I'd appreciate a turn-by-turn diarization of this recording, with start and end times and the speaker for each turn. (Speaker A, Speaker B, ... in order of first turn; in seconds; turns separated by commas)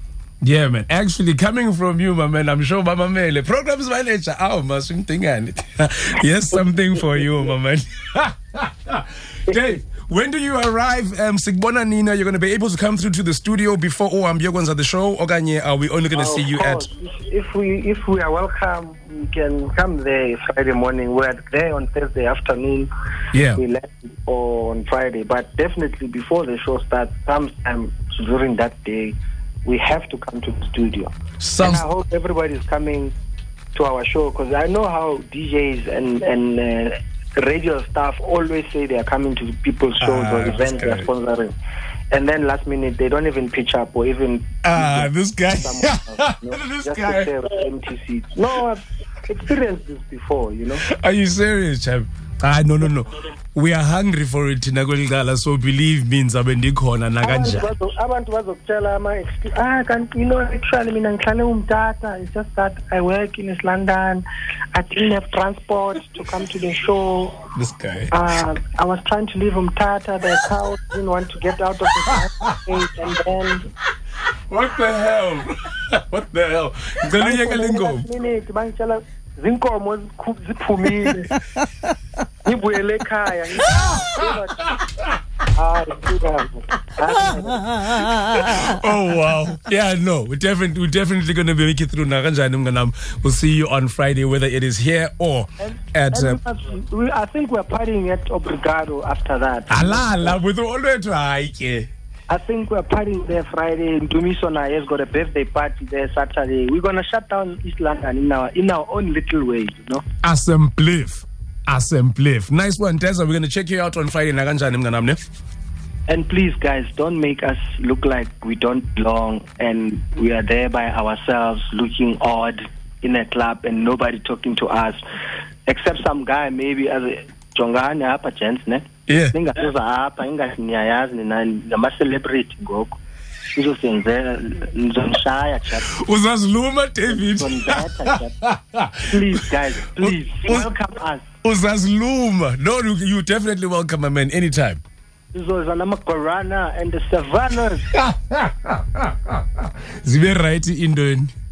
Speaker A: 0.4-16.9, Speaker B: 7.0-7.5, Speaker B: 16.1-22.9, Speaker A: 23.3-23.6, Speaker B: 23.5-33.1, Speaker A: 31.4-31.9, Speaker B: 33.7-41.5, Speaker A: 40.0-41.1, Speaker B: 42.1-50.9, Speaker A: 44.6-47.3, Speaker A: 50.9-57.7, Speaker B: 57.2-67.4, Speaker A: 67.5-68.1, Speaker B: 68.1-73.6, Speaker A: 72.1-72.5, Speaker A: 74.5-78.0, Speaker B: 77.2-81.3, Speaker B: 82.4-84.7, Speaker A: 83.7-84.3, Speaker B: 85.5-88.0, Speaker A: 87.9-96.4, Speaker B: 95.6-100.4, Speaker A: 99.7-101.9, Speaker B: 102.3-110.0, Speaker A: 110.2-115.3, Speaker B: 116.1-125.0, Speaker B: 125.7-133.0, Speaker A: 129.1-129.3, Speaker B: 133.6-135.9, Speaker A: 135.9-139.5, Speaker B: 137.1-138.3, Speaker B: 139.0-141.3, Speaker A: 140.0-140.7, Speaker A: 141.4-144.8, Speaker B: 145.3-147.9, Speaker A: 147.9-151.3